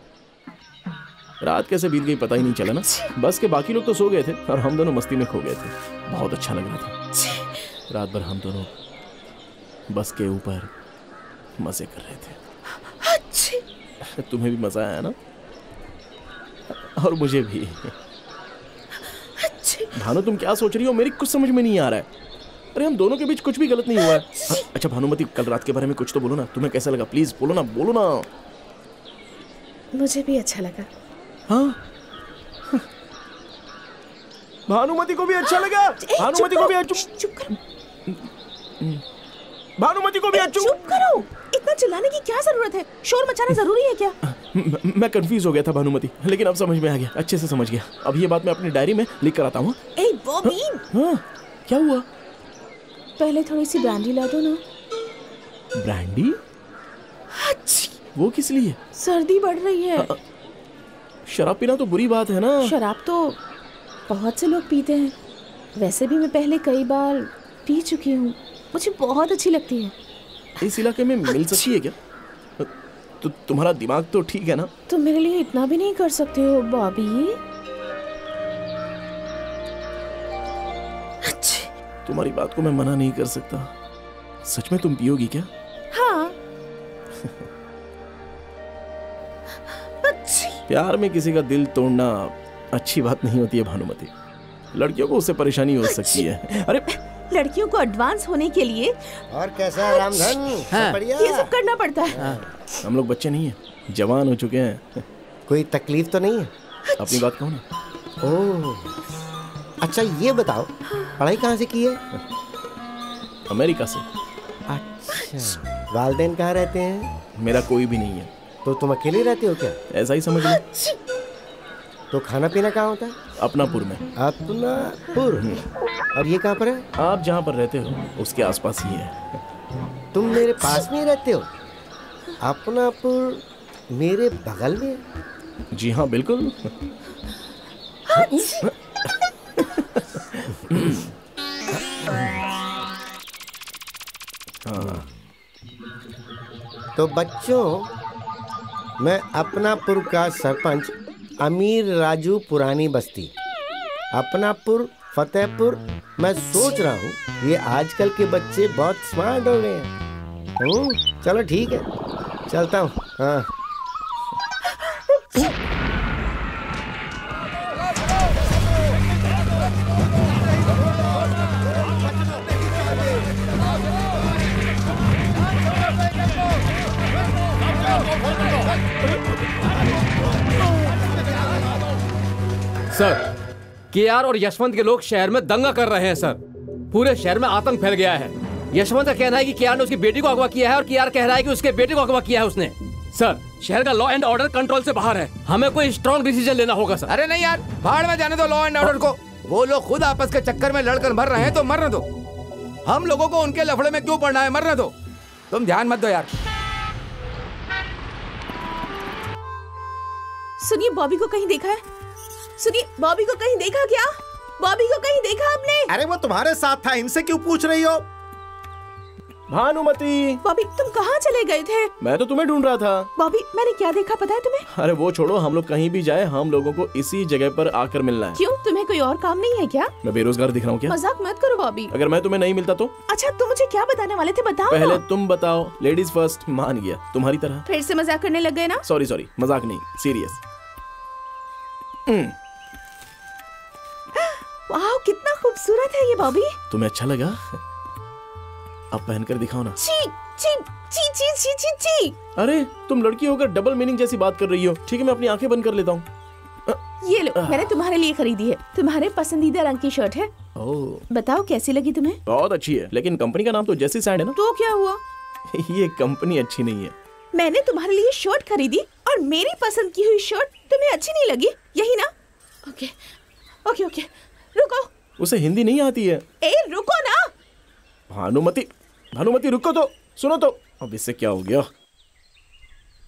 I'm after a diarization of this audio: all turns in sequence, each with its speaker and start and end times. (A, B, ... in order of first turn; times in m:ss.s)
0:01.4-0:06.9 A
0:07.2-0:07.5 B
0:07.9-0:08.7 A
0:09.9-0:10.7 A
0:11.6-0:12.4 A
0:12.9-0:13.6 B
0:14.1-0:15.2 A
0:16.7-0:17.9 A
0:19.4-0:19.9 B
0:19.9-0:22.1 A
0:22.8-0:28.3 A
0:24.0-0:24.6 B
0:29.9-0:30.9 B
0:31.5-0:31.8 A
0:34.7-0:37.1 A
0:35.5-0:37.5 B
0:39.8-0:40.8 A
0:40.3-0:44.2 B
0:44.3-0:49.8 A
0:50.0-0:50.8 B
0:50.4-0:52.1 A
0:53.2-0:54.6 B
0:55.8-0:56.4 A
0:57.4-0:58.0 B
0:58.2-0:58.8 A
0:59.0-1:00.1 B
1:01.3-1:02.8 A
1:02.6-1:03.4 B
1:04.1-1:05.2 B
1:05.8-1:09.9 B
1:10.6-1:12.0 A
1:11.3-1:11.7 B
1:13.2-1:14.7 A
1:14.9-1:17.4 B
1:21.2-1:21.7 B
1:22.1-1:23.7 A
1:24.4-1:25.5 A
1:25.9-1:26.4 B
1:30.0-1:30.6 B
1:30.7-1:34.1 A
1:34.7-1:36.9 A
1:35.9-1:36.2 B
1:37.3-1:39.0 B
1:39.3-1:41.5 C
1:39.8-1:40.4 B
1:40.7-1:41.0 D
1:41.2-1:42.2 B
1:42.8-1:45.0 A
1:45.5-1:46.5 C
1:46.9-1:47.2 B
1:47.0-1:47.6 A
1:48.2-1:49.0 C
1:49.8-1:52.0 C
1:53.5-1:54.0 A
1:54.7-1:57.1 C
1:57.4-1:58.3 A
1:58.6-1:59.8 C
1:59.9-2:00.6 A
2:00.5-2:01.0 B
2:02.1-2:03.2 C
2:03.4-2:04.0 A
2:04.2-2:05.6 C
2:06.1-2:06.8 C
2:07.0-2:09.4 A
2:10.1-2:11.5 C
2:12.4-2:15.0 C
2:15.7-2:16.7 A
2:18.1-2:18.7 B
2:19.6-2:21.1 A
2:24.6-2:25.0 A
2:27.0-2:27.9 C
2:29.0-2:33.3 C
2:34.1-2:39.9 C
2:40.6-2:41.9 C
2:42.5-2:43.5 C
3:02.9-3:03.2 D
3:03.9-3:06.4 D
3:06.9-3:17.1 D
3:17.1-3:22.1 E
3:22.8-3:24.9 E
3:25.5-3:26.3 E
3:30.6-3:31.8 B
3:32.6-3:35.9 B
3:35.9-3:38.0 F
3:39.5-3:40.4 A
3:40.4-3:41.9 B
3:42.0-3:43.1 A
3:43.2-3:44.7 B
3:44.7-3:48.4 A
3:48.4-3:49.9 B
3:50.0-3:51.0 A
3:50.9-3:51.9 B
3:51.9-3:52.9 A
3:53.1-3:55.0 B
3:54.7-3:57.6 A
3:57.7-3:58.8 B
3:58.8-4:00.4 A
4:02.1-4:02.4 A
4:04.2-4:06.6 B
4:06.7-4:07.6 A
4:08.9-4:09.8 A
4:09.8-4:12.2 B
4:12.4-4:16.1 A
4:17.0-4:20.3 B
4:17.4-4:17.7 A
4:20.6-4:21.1 A
4:21.1-4:22.2 B
4:22.3-4:24.4 A
4:24.4-4:25.0 B
4:25.5-4:26.9 A
4:27.3-4:32.1 B
4:32.7-4:33.0 B
4:33.6-4:34.9 B
4:35.2-4:36.2 A
4:36.4-4:37.3 B
4:38.1-4:41.7 A